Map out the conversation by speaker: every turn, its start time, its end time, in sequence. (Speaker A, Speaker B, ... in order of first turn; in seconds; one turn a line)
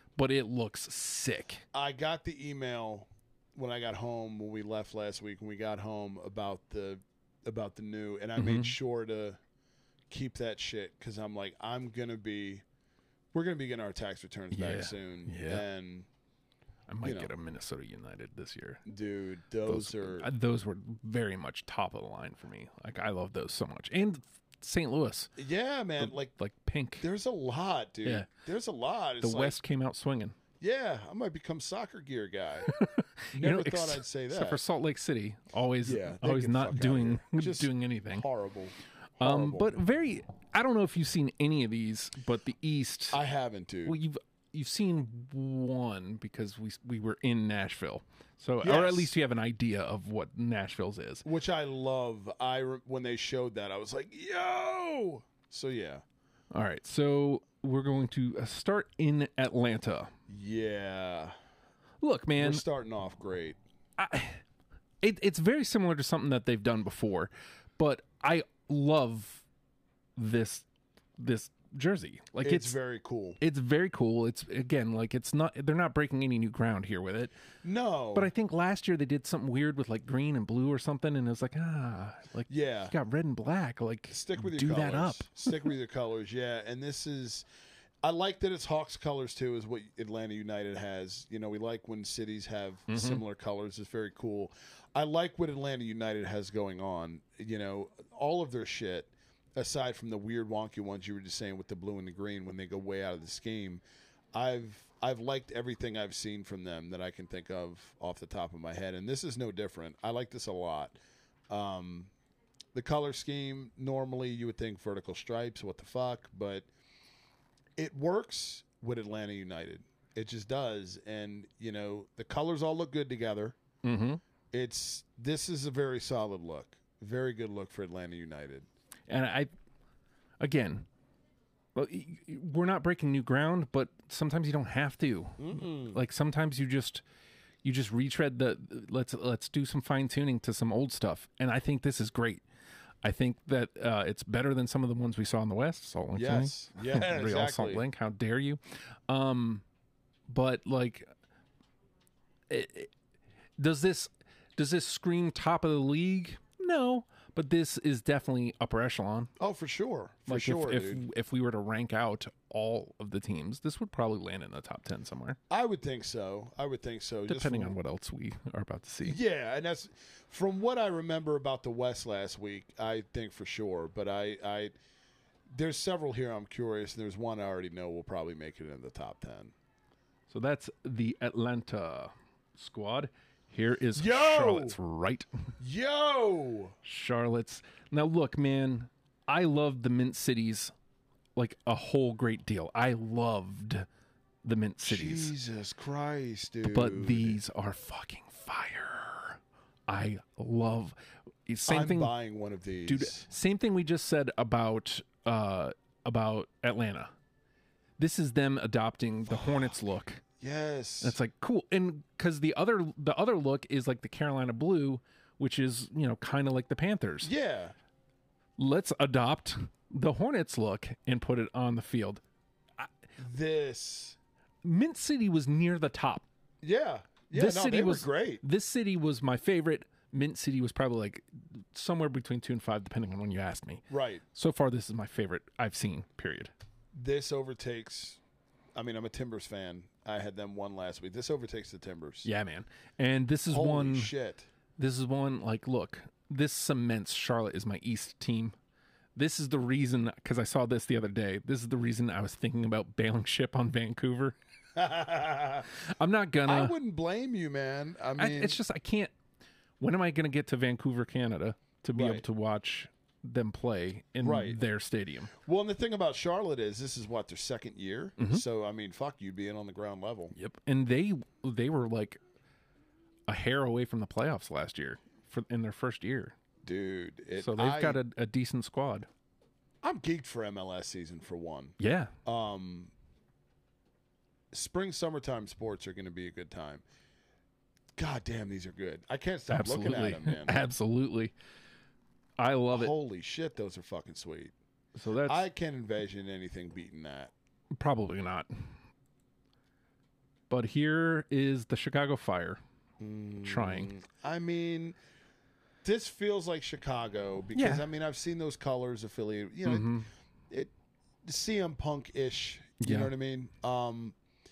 Speaker A: 0.2-1.6
Speaker B: 1.7-9.4
Speaker A: 8.4-8.7
Speaker B: 10.1-12.6
Speaker B: 13.3-16.1
Speaker A: 14.5-15.6
Speaker A: 16.9-18.8
Speaker B: 17.0-17.3
Speaker B: 18.9-20.3
Speaker A: 19.6-25.3
Speaker B: 25.4-26.3
Speaker A: 26.0-27.1
Speaker B: 27.0-29.6
Speaker A: 29.2-30.4
Speaker B: 30.6-32.7
Speaker A: 32.6-38.2
Speaker B: 33.3-34.6
Speaker B: 35.8-39.7
Speaker A: 39.2-43.2
Speaker B: 43.1-44.0
Speaker A: 43.8-51.3
Speaker B: 48.6-49.1
Speaker B: 51.2-56.0
Speaker A: 56.5-60.1
Speaker B: 60.3-61.3
Speaker A: 62.0-62.6
Speaker B: 62.4-63.6
Speaker A: 64.0-64.4
Speaker A: 65.0-69.4
Speaker A: 70.2-70.7
Speaker A: 71.2-72.8
Speaker B: 72.4-73.4
Speaker A: 73.4-77.3
Speaker B: 77.6-78.3
Speaker A: 78.1-85.5
Speaker B: 82.5-82.9
Speaker B: 84.1-87.4
Speaker B: 88.0-103.8
Speaker A: 92.9-93.2
Speaker B: 104.3-111.0
Speaker B: 111.5-112.1
Speaker B: 112.7-116.7
Speaker B: 117.8-123.5
Speaker A: 123.8-124.2
Speaker B: 124.5-128.7
Speaker A: 129.1-129.5
Speaker A: 130.4-130.9
Speaker A: 131.7-137.0
Speaker B: 135.4-136.0
Speaker A: 137.6-142.4
Speaker A: 143.0-149.6
Speaker B: 146.1-147.8
Speaker A: 150.3-151.1
Speaker A: 152.5-152.9
Speaker A: 153.6-159.3
Speaker B: 159.4-161.0
Speaker A: 160.3-165.4
Speaker B: 165.5-167.8
Speaker A: 167.3-169.2
Speaker B: 169.0-174.7
Speaker B: 175.5-179.5
Speaker A: 180.3-185.3
Speaker B: 183.9-184.8
Speaker B: 185.6-186.7
Speaker A: 186.8-190.7
Speaker A: 191.4-193.9
Speaker A: 194.4-195.3
Speaker B: 194.8-197.4
Speaker A: 196.6-200.9
Speaker A: 201.5-202.1
Speaker B: 201.7-203.2
Speaker A: 202.8-207.1
Speaker A: 208.0-210.2
Speaker B: 209.3-209.7
Speaker B: 210.4-211.2
Speaker A: 211.0-217.3
Speaker B: 217.2-217.7
Speaker A: 218.6-222.2
Speaker B: 223.2-224.2
Speaker A: 224.6-226.2
Speaker B: 226.6-228.4
Speaker A: 227.3-236.5
Speaker B: 233.9-234.2
Speaker B: 236.9-238.2
Speaker B: 238.7-242.3
Speaker A: 242.2-244.1
Speaker B: 243.5-244.5
Speaker A: 244.8-248.6
Speaker A: 249.2-254.3
Speaker B: 254.8-255.7
Speaker A: 255.7-256.7
Speaker B: 256.4-258.6
Speaker A: 258.2-259.1
Speaker A: 259.8-265.3
Speaker B: 261.9-262.2
Speaker B: 264.2-264.6
Speaker B: 265.4-270.3
Speaker A: 268.2-268.4
Speaker A: 270.3-272.2
Speaker A: 273.3-276.3
Speaker B: 276.6-278.0
Speaker A: 277.4-279.1
Speaker B: 279.8-282.9
Speaker A: 281.8-282.1
Speaker B: 284.5-286.8
Speaker B: 288.0-290.6
Speaker A: 289.5-291.3
Speaker A: 292.4-292.9
Speaker B: 292.7-294.5
Speaker A: 294.9-295.4
Speaker B: 295.2-297.3
Speaker A: 297.7-298.7
Speaker A: 300.5-302.6
Speaker B: 303.0-305.0
Speaker A: 303.4-303.9
Speaker B: 305.8-309.9
Speaker A: 307.6-307.8
Speaker A: 309.6-310.1
Speaker B: 311.2-314.1
Speaker A: 312.8-313.1